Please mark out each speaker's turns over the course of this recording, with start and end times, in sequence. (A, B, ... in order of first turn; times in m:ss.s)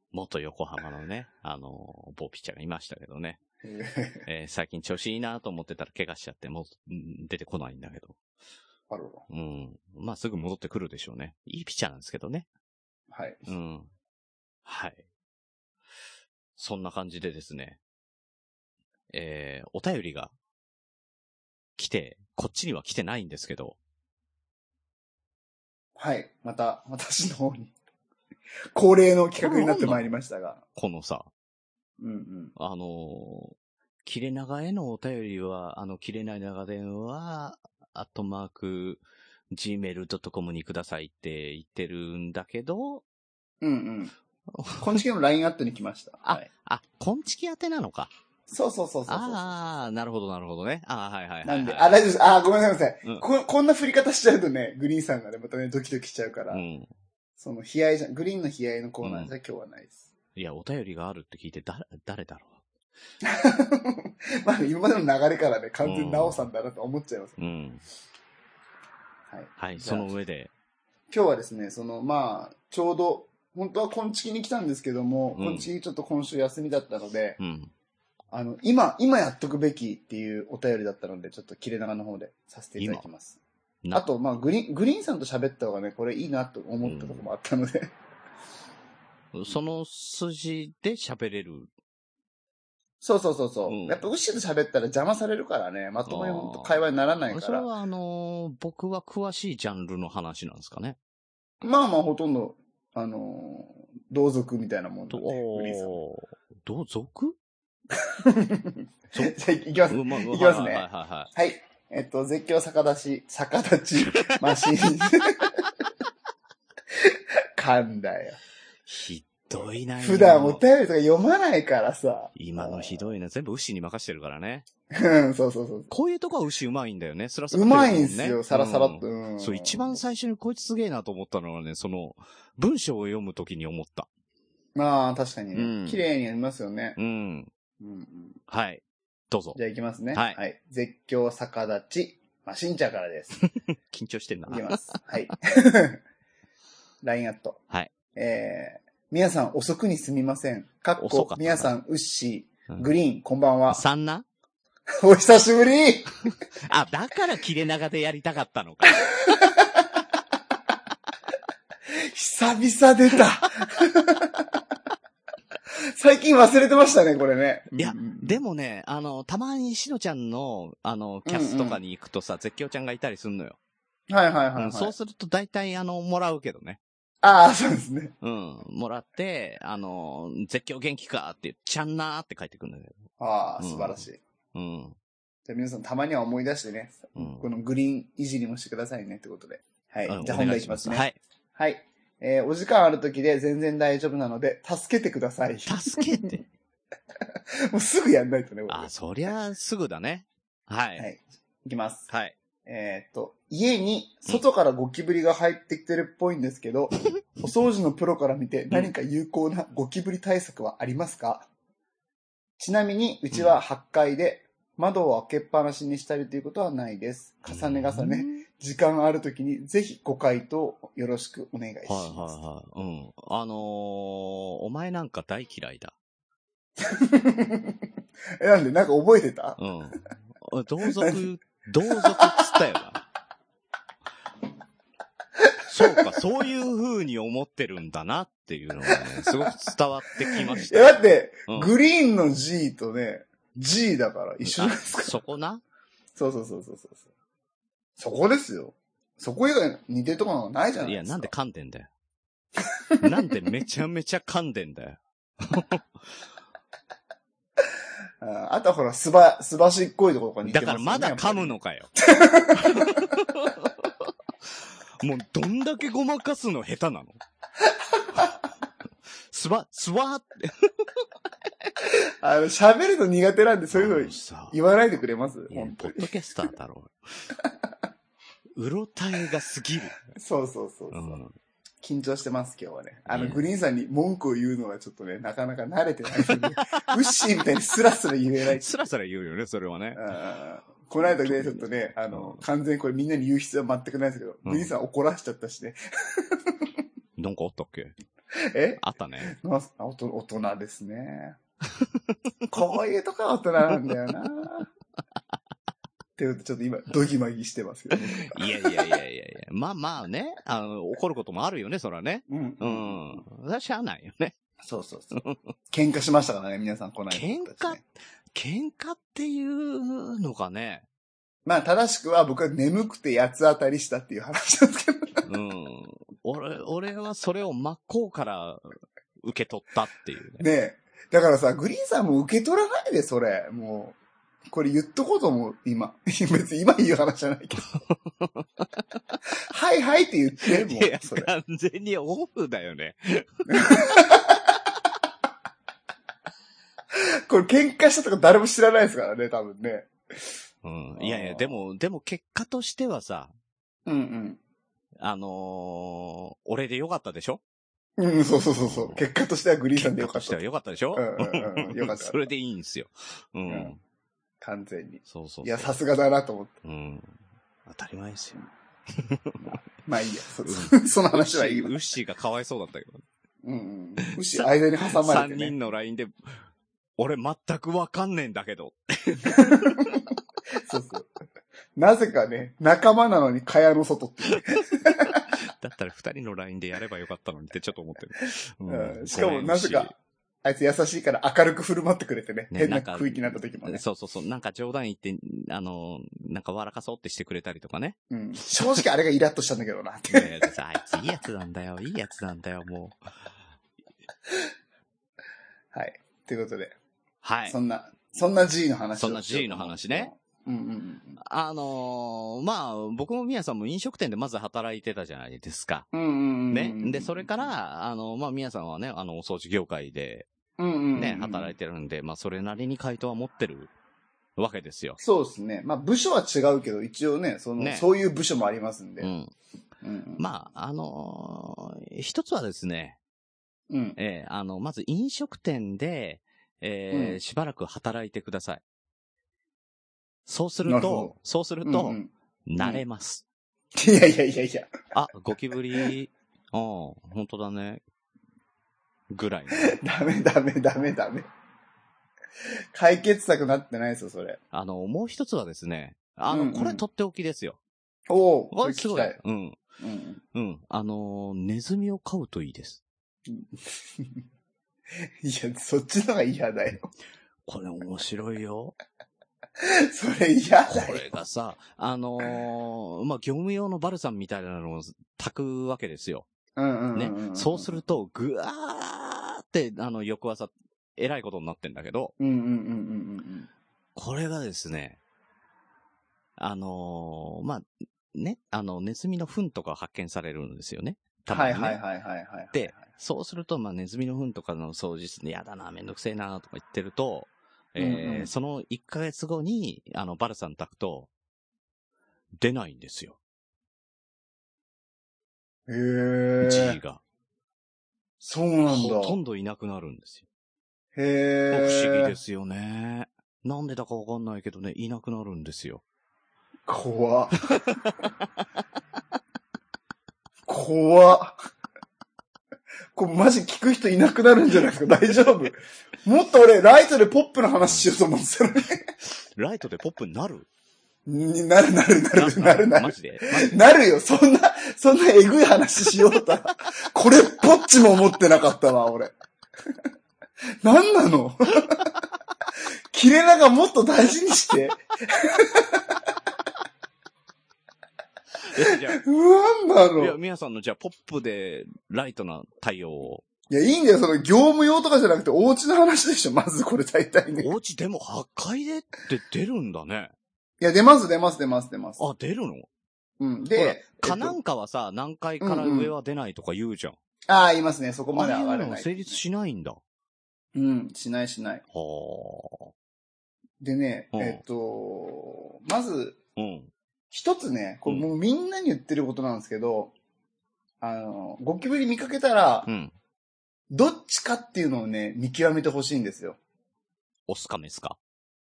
0:00.1-0:03.4 A
0:03.6-0:04.2 B
0:04.2-0:08.2 A
0:08.9-0:09.2 B
0:09.3-0:12.5 A
0:13.1-0:13.5 B
0:13.5-0:13.9 A
0:14.6-0:15.0 A
0:16.6-0:17.8 A
0:19.1-0:20.3 A
0:21.8-0:23.8 A
0:26.0-0:27.7 B
0:28.7-0:30.6 B
0:29.4-0:30.1 A
0:30.8-0:31.3 A
0:32.0-0:32.5 B
0:32.6-0:43.0 A
0:43.6-0:44.1 B
0:44.5-0:45.0 A
0:44.8-0:46.5 B
0:46.2-0:48.1 A
0:48.5-0:49.5 B
0:49.1-0:52.0 A
0:51.4-0:56.6 B
0:56.5-0:56.9 A
0:57.4-1:00.1 B
0:59.0-0:59.3 A
1:00.4-1:02.6 A
1:03.2-1:07.4 B
1:05.8-1:06.5 A
1:07.4-1:07.8 A
1:09.3-1:10.1 B
1:09.6-1:10.5 A
1:11.1-1:17.4 B
1:15.3-1:15.7 A
1:17.4-1:17.7 A
1:18.3-1:23.4 B
1:22.8-1:23.1 A
1:23.9-1:27.9 B
1:26.8-1:27.3 A
1:29.3-1:31.7 A
1:33.0-1:37.7 B
1:33.7-1:34.1 A
1:36.1-1:36.8 A
1:37.3-1:41.0 A
1:41.6-1:46.0 B
1:45.1-1:47.4 A
1:48.0-1:55.6 B
1:49.1-1:51.3 A
1:56.9-1:58.4 B
1:58.9-2:00.6 A
1:59.5-2:03.0 B
2:02.4-2:04.7 A
2:04.9-2:05.9 B
2:05.9-2:14.1 A
2:07.5-2:10.0 B
2:14.8-2:17.0 B
2:15.5-2:16.0 A
2:17.0-2:17.5 A
2:17.8-2:18.4 B
2:18.5-2:19.6 A
2:19.6-2:23.5 B
2:20.1-2:20.4 A
2:23.4-2:25.0 A
2:24.5-2:26.0 B
2:27.0-2:27.6 B
2:28.1-2:33.8 B
2:31.0-2:31.8 A
2:33.7-2:34.3 A
2:35.0-2:36.1 B
2:36.6-2:39.1 A
2:39.2-2:39.8 B
2:41.9-2:44.6 B
2:46.0-2:48.4 B
2:47.8-2:53.6 A
2:51.3-2:51.8 B
2:54.1-2:54.9 B
2:54.6-2:56.8 A
2:57.2-2:58.1 B
2:58.2-3:03.0 A
3:03.2-3:04.2 B
3:03.6-3:05.0 A
3:05.5-3:16.3 B
3:07.2-3:07.5 A
3:10.0-3:11.2 A
3:15.7-3:16.5 A
3:17.7-3:18.9 B
3:18.7-3:21.1 A
3:21.0-3:22.1 B
3:22.1-3:22.4 A
3:22.6-3:31.5 B
3:32.6-3:42.4 B
3:33.3-3:33.6 A
3:37.5-3:38.4 A
3:41.9-3:46.0 A
3:46.8-3:47.8 B
3:48.4-3:49.6 B
3:49.6-3:53.0 A
3:50.8-3:51.2 B
3:52.0-3:52.6 B
3:55.4-3:56.0 B
3:55.7-4:01.7 A
3:58.9-3:59.3 B
4:00.3-4:05.2 B
4:04.4-4:05.6 A
4:06.2-4:07.0 B
4:08.0-4:11.3 B
4:10.8-4:11.9 A
4:13.0-4:15.8 A
4:18.2-4:23.1 B
4:20.4-4:21.9 A
4:22.5-4:24.1 A
4:25.0-4:27.2 A
4:27.7-4:28.3 B
4:29.3-4:30.9 A
4:32.0-4:36.1 B
4:33.7-4:34.6 A
4:35.5-4:37.0 A
4:38.6-4:40.0 A
4:40.1-4:41.2 B
4:40.9-4:41.4 A
4:41.8-4:48.8 B
4:43.1-4:43.4 A
4:46.2-4:46.9 A
4:48.5-4:50.1 A
4:50.0-4:56.7 B
4:51.0-4:52.4 A
4:54.4-4:54.7 A
4:57.2-4:57.9 A
4:58.4-5:01.4 B
4:58.8-4:59.4 A
5:01.8-5:02.5 A
5:02.5-5:04.7 B
5:06.2-5:08.7 B
5:08.0-5:14.4 A
5:12.3-5:13.2 B
5:14.6-5:17.8 B
5:15.1-5:15.5 A
5:17.1-5:20.9 A
5:21.4-5:25.3 B
5:25.3-5:30.4 A
5:30.4-5:34.0 B
5:34.5-5:37.7 B
5:37.7-5:38.8 A
5:39.5-5:41.3 B
5:40.4-5:44.0 A
5:43.5-5:44.4 B
5:46.9-5:49.9 B
5:50.6-5:53.3 A
5:51.0-5:51.6 B
5:53.9-5:54.4 B
5:55.0-5:57.4 A
5:58.0-6:00.4 B
5:58.6-5:59.1 A
5:59.8-6:03.8 A
6:00.9-6:02.2 B
6:03.5-6:03.7 B
6:04.4-6:06.5 B
6:05.0-6:05.8 A
6:06.6-6:09.6 A
6:09.8-6:11.7 B
6:10.4-6:13.0 A
6:13.4-6:15.5 B
6:14.0-6:16.4 A
6:17.0-6:20.0 A
6:19.3-6:20.0 B
6:20.6-6:21.1 B
6:21.8-6:25.2 B
6:24.3-6:29.9 A
6:28.7-6:29.9 B
6:30.4-6:33.8 B
6:32.5-6:38.8 A
6:38.1-6:40.5 B
6:40.1-6:43.0 A
6:45.7-6:46.8 B
6:47.2-6:47.6 A
6:47.5-6:51.2 B
6:49.0-6:50.1 A
6:51.2-6:55.9 A
6:55.9-6:57.5 B
6:56.5-7:00.3 A
7:00.6-7:01.5 B
7:01.0-7:03.7 A
7:04.4-7:05.0 A
7:05.0-7:09.1 B
7:07.6-7:07.9 A
7:09.0-7:09.3 A
7:09.8-7:10.2 B
7:10.2-7:13.0 A
7:13.7-7:14.0 B
7:14.0-7:18.6 A
7:16.9-7:17.2 B
7:20.3-7:23.2 A
7:20.7-7:22.8 B
7:23.8-7:24.7 B
7:24.9-7:27.8 A
7:29.1-7:29.8 A
7:29.6-7:31.3 B
7:32.7-7:34.4 B
7:34.5-7:37.6 A
7:36.3-7:36.8 B
7:38.1-7:39.2 B
7:38.5-7:39.6 A
7:39.8-7:40.2 B
7:40.3-7:42.8 A
7:43.3-7:44.2 B
7:45.2-7:46.9 B
7:47.5-7:48.8 A
7:49.6-7:51.1 B
7:50.7-7:56.3 A
7:56.6-7:57.8 B
7:56.9-8:02.1 A
8:02.2-8:03.5 B
8:04.0-8:05.0 A
8:06.4-8:11.8 A
8:11.3-8:12.9 B
8:12.5-8:21.1 A
8:17.8-8:18.3 B
8:22.4-8:23.2 A
8:25.7-8:26.8 B
8:26.4-8:27.0 A
8:28.2-8:29.2 B
8:28.7-8:30.3 A
8:31.0-8:32.2 B
8:31.5-8:35.8 A
8:36.7-8:37.4 B
8:37.5-8:38.3 A
8:40.5-8:41.4 B
8:43.0-8:48.9 B
8:47.6-8:47.9 A
8:49.0-8:50.5 A
8:51.1-8:59.1 B
8:52.1-8:53.6 A
9:00.6-9:01.9 B
9:02.9-9:06.0 B
9:08.4-9:09.0 A
9:08.6-9:10.2 B
9:10.0-9:13.2 A
9:13.5-9:17.5 B
9:17.4-9:20.1 A
9:20.6-9:22.0 B
9:22.0-9:22.7 A
9:23.2-9:24.4 B
9:23.5-9:27.0 A
9:25.4-9:25.9 B
9:27.3-9:29.2 B
9:28.1-9:29.8 A
9:30.6-9:31.6 B
9:31.7-9:32.7 A
9:33.6-9:36.2 B
9:34.1-9:34.4 A
9:36.4-9:36.7 A
9:37.1-9:39.9 B
9:40.8-9:42.7 B
9:42.7-9:42.9 A
9:43.7-9:46.4 B
9:47.3-9:48.0 A